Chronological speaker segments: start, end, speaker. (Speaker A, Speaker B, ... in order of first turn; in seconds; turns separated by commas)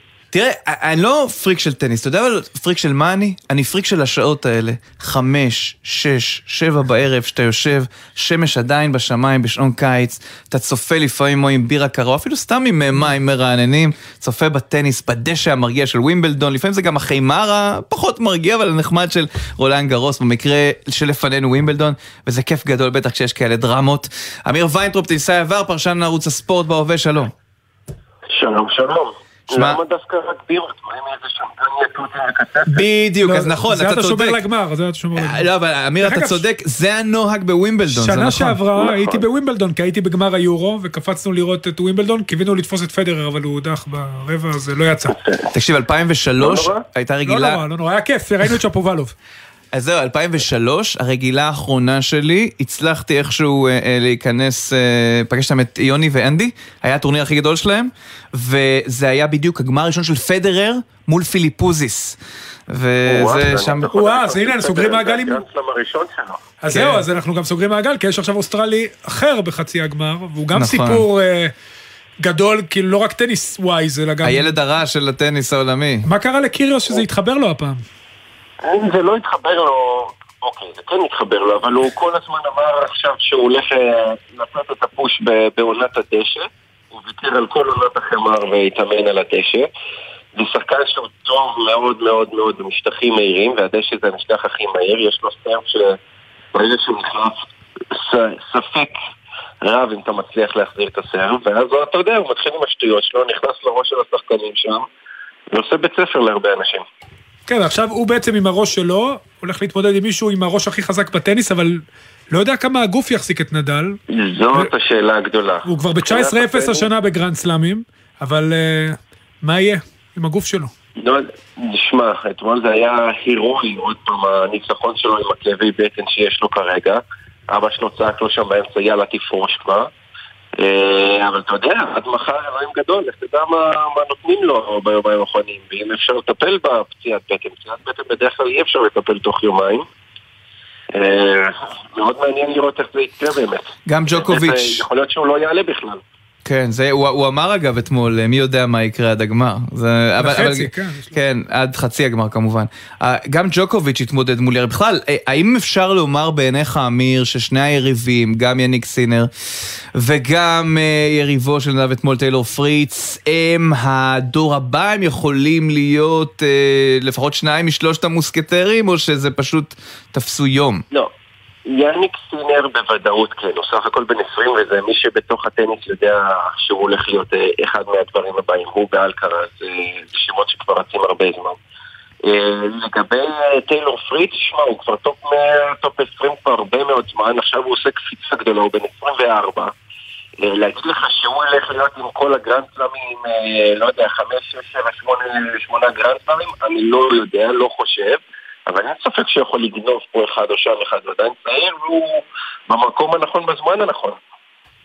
Speaker A: 0.3-27.3, Speaker B: 28.3-32.8, Speaker A: 29.5-29.8, Speaker A: 32.7-34.4, Speaker C: 33.2-35.5, Speaker A: 35.1-38.6, Speaker C: 36.0-36.4, Speaker C: 37.9-45.1, Speaker B: 38.8-39.2, Speaker B: 45.1-45.5, Speaker A: 45.5-47.6, Speaker B: 46.4-46.8, Speaker C: 47.3-49.1, Speaker A: 49.7-62.2, Speaker A: 62.7-63.9, Speaker B: 63.0-66.4, Speaker C: 63.9-65.4, Speaker C: 66.6-71.5, Speaker A: 66.7-67.0, Speaker A: 70.5-71.0, Speaker C: 72.2-74.5, Speaker A: 74.2-76.0, Speaker C: 76.0-77.8, Speaker B: 78.6-89.7, Speaker B: 90.3-96.0, Speaker B: 96.5-98.9, Speaker B: 99.6-104.9, Speaker B: 105.5-106.8, Speaker C: 107.5-114.0, Speaker B: 114.1-116.8, Speaker C: 115.6-120.7, Speaker B: 121.0-129.9, Speaker B: 130.6-139.9, Speaker B: 140.9-146.0, Speaker A: 143.9-144.8, Speaker A: 146.4-159.3, Speaker C: 150.2-151.2, Speaker A: 159.9-170.8, Speaker B: 171.7-181.6, Speaker B: 182.2-189.7, Speaker B: 190.4-204.2